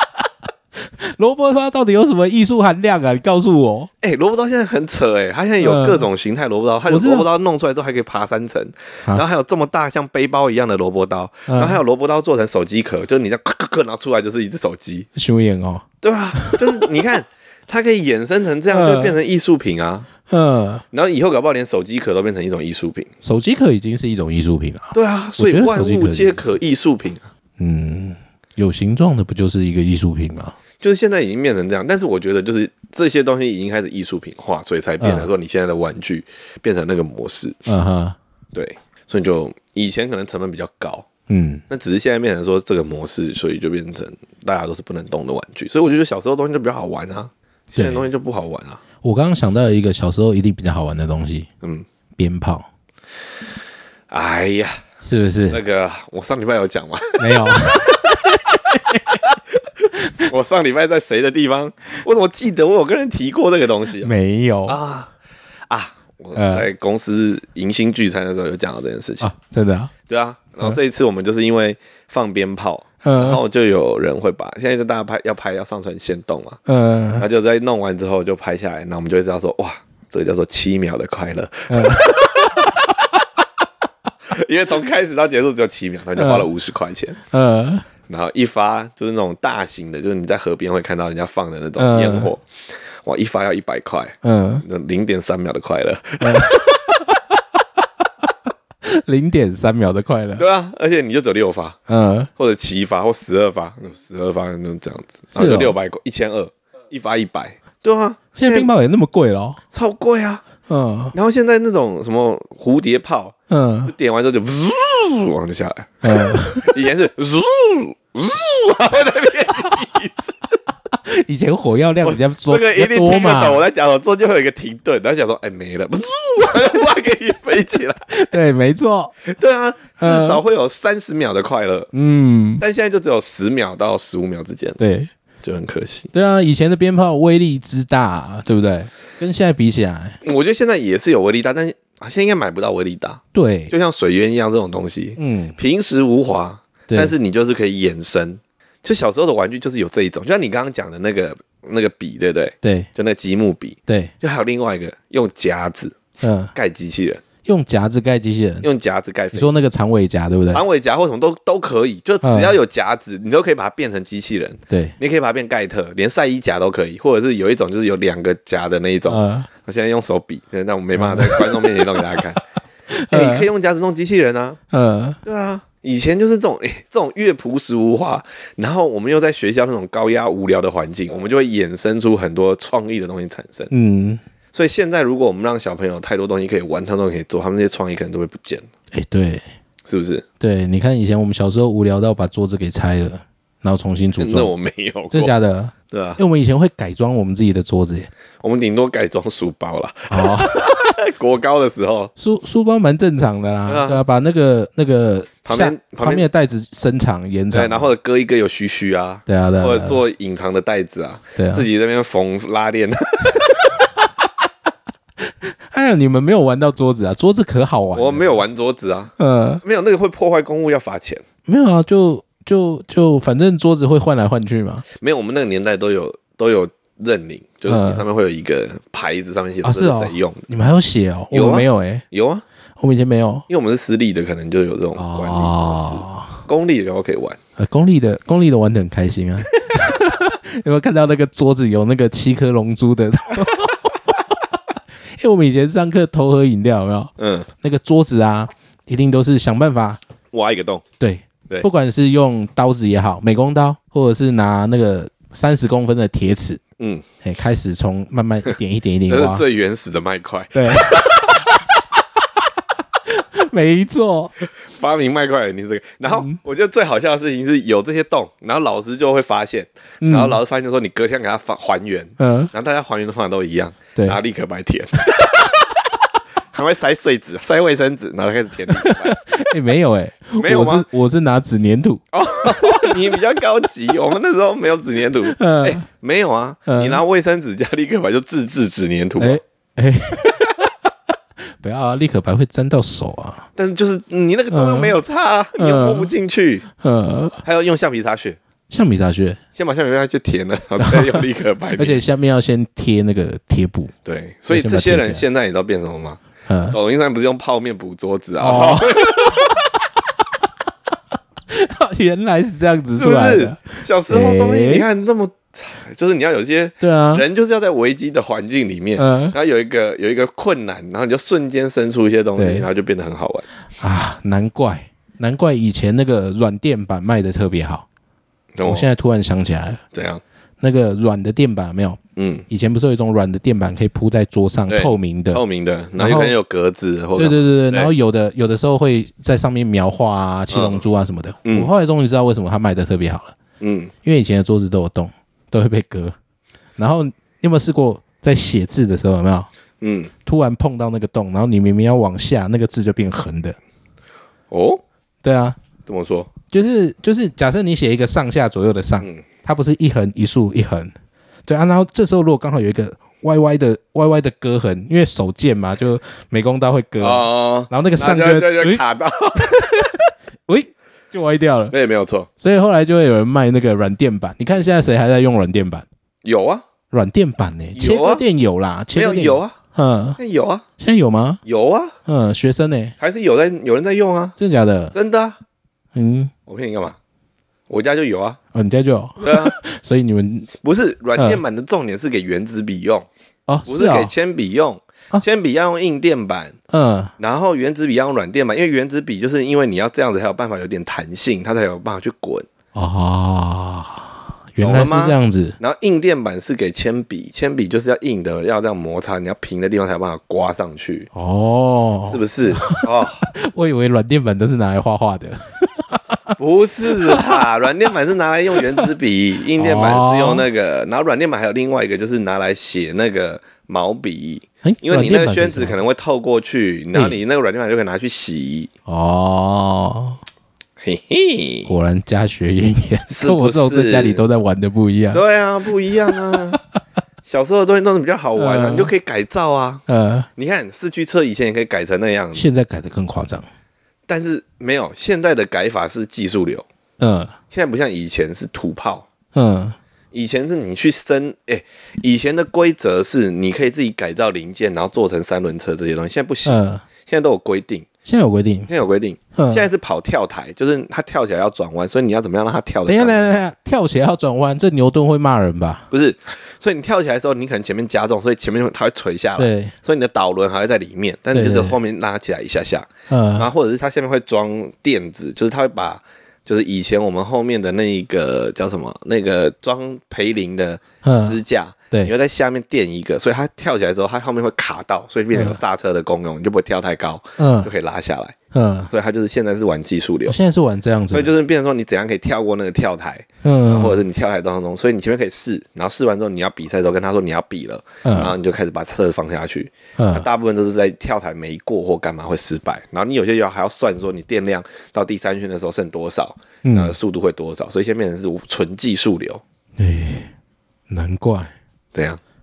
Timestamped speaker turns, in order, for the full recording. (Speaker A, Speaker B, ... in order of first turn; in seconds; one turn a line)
Speaker A: 0.8-3.9
Speaker B: 4.0-15.1
Speaker A: 5.6-6.0
Speaker A: 6.9-7.3
Speaker A: 11.5-11.8
Speaker A: 15.1-16.8
Speaker B: 16.0-20.1
Speaker A: 18.7-19.1
Speaker A: 20.3-20.8
Speaker B: 20.9-23.1
Speaker A: 23.2-26.5
Speaker B: 24.9-27.3
Speaker A: 27.6-30.6
Speaker B: 30.8-37.6
Speaker A: 35.0-35.3
Speaker A: 37.6-38.2
Speaker B: 38.5-41.1
Speaker A: 41.3-41.6
Speaker B: 41.7-48.8
Speaker A: 47.8-48.1
Speaker A: 49.0-51.5
Speaker A: 52.2-52.7
Speaker B: 54.1-54.8
Speaker A: 55.0-55.6
Speaker B: 55.5-58.2
Speaker A: 57.2-59.2
Speaker B: 59.2-64.1
Speaker A: 64.0-64.8
Speaker B: 64.7-65.1
Speaker B: 65.7-69.3
Speaker A: 66.3-66.7
Speaker A: 69.2-69.9
Speaker B: 70.1-76.6
Speaker A: 73.0-73.4
Speaker A: 76.7-77.2
Speaker B: 77.2-83.0
Speaker A: 81.7-82.1
Speaker B: 84.3-87.2
Speaker A: 86.2-86.5
Speaker A: 87.3-87.9
Speaker B: 88.1-92.4
Speaker A: 91.8-92.3
Speaker B: 93.0-96.9
Speaker A: 94.2-94.6
Speaker A: 96.2-96.6
Speaker A: 98.8-100.4
Speaker B: 100.4-101.8
Speaker A: 101.9-102.3
Speaker B: 102.3-108.7
Speaker A: 105.3-105.8
Speaker A: 108.3-109.6
Speaker B: 109.7-110.4
Speaker A: 110.7-111.1
Speaker B: 111.1-113.3
Speaker A: 113.5-113.9
Speaker B: 113.9-120.4
Speaker A: 116.0-116.8
Speaker A: 120.9-123.6
Speaker B: 122.0-128.1
Speaker A: 128.1-129.2
Speaker B: 129.2-131.9
Speaker A: 130.0-130.4
Speaker A: 131.9-132.6
Speaker B: 132.6-134.8
Speaker A: 134.8-135.1
Speaker B: 135.4-136.1
Speaker A: 136.1-140.2
Speaker B: 140.2-156.0
Speaker A: 143.3-143.7
Speaker A: 145.2-145.6
Speaker A: 146.9-147.1
Speaker A: 152.6-152.9
Speaker A: 153.9-154.1
Speaker A: 156.2-156.5
Speaker B: 156.5-157.2
Speaker A: 157.4-158.7
Speaker B: 158.6-159.5
Speaker A: 159.3-160.6
Speaker B: 160.5-172.4
Speaker A: 162.2-162.5
Speaker A: 164.7-164.9
Speaker A: 169.1-169.5
Speaker A: 170.9-172.1
Speaker A: 172.9-173.5
Speaker B: 173.1-174.6
Speaker A: 174.7-175.2
Speaker B: 175.2-183.7
Speaker A: 183.7-184.2
Speaker B: 184.5-188.7
Speaker A: 188.9-189.4
Speaker B: 189.8-190.2
Speaker A: 190.4-194.5
Speaker B: 194.2-195.3
Speaker A: 195.1-198.1
Speaker B: 195.9-196.2
Speaker B: 198.4-202.1
Speaker A: 200.1-200.6
Speaker A: 202.2-207.9
Speaker B: 203.7-204.0
Speaker B: 205.4-206.2
Speaker B: 207.5-213.7
Speaker A: 209.3-210.0
Speaker A: 211.3-211.7
Speaker A: 215.2-218.3
Speaker B: 217.9-221.2
Speaker A: 219.2-219.6
Speaker A: 221.5-224.8
Speaker B: 225.0-230.4
Speaker A: 227.7-228.0
Speaker A: 229.6-232.0
Speaker B: 231.3-232.4
Speaker A: 232.8-233.5
Speaker B: 233.5-237.4
Speaker A: 234.9-236.4
Speaker A: 237.6-244.1
Speaker A: 245.1-250.0
Speaker B: 247.2-247.5
Speaker B: 250.3-250.8
Speaker A: 251.0-256.6
Speaker B: 256.8-257.0
Speaker A: 257.2-259.4
Speaker B: 259.1-261.4
Speaker A: 260.5-261.6
Speaker A: 263.1-264.3
Speaker B: 264.4-275.7
Speaker A: 270.0-270.4
Speaker A: 272.2-272.5
Speaker B: 276.5-279.2
Speaker A: 278.7-283.0
Speaker B: 280.4-280.9
Speaker B: 282.1-289.4
Speaker A: 285.2-285.8
Speaker A: 286.7-287.0
Speaker A: 289.2-290.7
Speaker A: 291.6-293.5
Speaker B: 293.6-296.6
Speaker A: 294.5-295.0
Speaker A: 295.6-296.1
Speaker A: 296.8-297.4
Speaker B: 297.4-298.4
Speaker A: 298.7-299.4
Speaker B: 299.6-302.0
Speaker A: 300.8-301.2
Speaker A: 301.8-303.9
Speaker B: 304.0-306.2
Speaker A: 304.5-305.2
Speaker A: 306.5-306.8
Speaker B: 306.7-309.7
Speaker A: 308.4-309.6
Speaker A: 311.5-314.9
Speaker B: 312.9-323.4
Speaker A: 316.8-317.2
Speaker A: 319.0-319.4
Speaker A: 322.4-322.7
Speaker A: 323.8-327.9
Speaker B: 328.6-328.9
Speaker A: 328.6-329.8
Speaker B: 329.9-330.2
Speaker A: 330.6-335.4
Speaker B: 332.1-332.4
Speaker B: 334.7-337.9
Speaker A: 336.0-336.3
Speaker A: 337.2-343.3
Speaker B: 340.5-340.8
Speaker B: 341.4-341.7
Speaker B: 343.6-343.9
Speaker A: 344.0-346.1
Speaker A: 346.8-349.5
Speaker B: 349.8-350.1
Speaker A: 350.2-353.6
Speaker B: 354.5-354.8
Speaker A: 355.2-355.6
Speaker B: 355.9-356.3
Speaker A: 356.5-360.9
Speaker A: 361.5-368.8
Speaker B: 367.0-369.8
Speaker A: 369.4-371.7
Speaker B: 371.7-372.3
Speaker A: 372.4-375.9
Speaker B: 376.2-376.6
Speaker A: 376.9-380.2
Speaker B: 377.7-378.2
Speaker B: 378.9-379.6
Speaker B: 380.2-380.6
Speaker A: 380.8-381.4
Speaker B: 381.4-381.9
Speaker A: 382.1-382.9
Speaker B: 383.0-384.4
Speaker A: 384.4-384.9
Speaker B: 384.9-385.4
Speaker A: 385.9-386.3
Speaker B: 386.5-387.0
Speaker B: 387.7-388.4
Speaker A: 388.5-390.5
Speaker B: 389.2-389.5
Speaker B: 390.6-393.1
Speaker A: 391.2-391.4
Speaker A: 393.5-394.1
Speaker B: 393.7-396.6
Speaker A: 396.7-397.1
Speaker B: 397.2-402.5
Speaker A: 402.7-405.6
Speaker B: 404.6-411.1
Speaker A: 411.1-416.4
Speaker B: 412.1-413.3
Speaker B: 416.4-428.7
Speaker A: 416.9-417.4
Speaker A: 419.6-420.4
Speaker A: 424.6-425.8
Speaker A: 428.9-430.2
Speaker B: 430.8-431.7
Speaker A: 431.6-435.2
Speaker B: 433.1-434.2
Speaker B: 435.1-436.6
Speaker A: 436.1-436.6
Speaker B: 437.2-439.8
Speaker A: 438.4-438.9
Speaker A: 439.9-440.3
Speaker B: 440.4-442.4
Speaker A: 442.3-443.4
Speaker B: 444.1-446.6
Speaker A: 447.0-447.3
Speaker B: 447.5-449.1
Speaker A: 449.3-449.8
Speaker B: 450.1-457.9
Speaker A: 456.4-456.8
Speaker A: 458.0-458.7
Speaker B: 458.7-463.3
Speaker A: 459.3-459.7
Speaker A: 462.9-465.9
Speaker B: 465.9-488.4
Speaker A: 469.4-469.7
Speaker A: 471.3-471.8
Speaker A: 473.1-473.5
Speaker A: 481.0-481.4
Speaker A: 485.3-485.6
Speaker A: 487.4-487.7
Speaker A: 488.5-488.9
Speaker B: 488.9-490.4
Speaker A: 490.3-491.3
Speaker B: 491.1-509.4
Speaker A: 493.4-494.0
Speaker A: 498.0-498.3
Speaker A: 500.0-500.2
Speaker A: 506.6-506.9
Speaker A: 509.8-510.3
Speaker A: 510.9-511.5
Speaker B: 511.9-512.2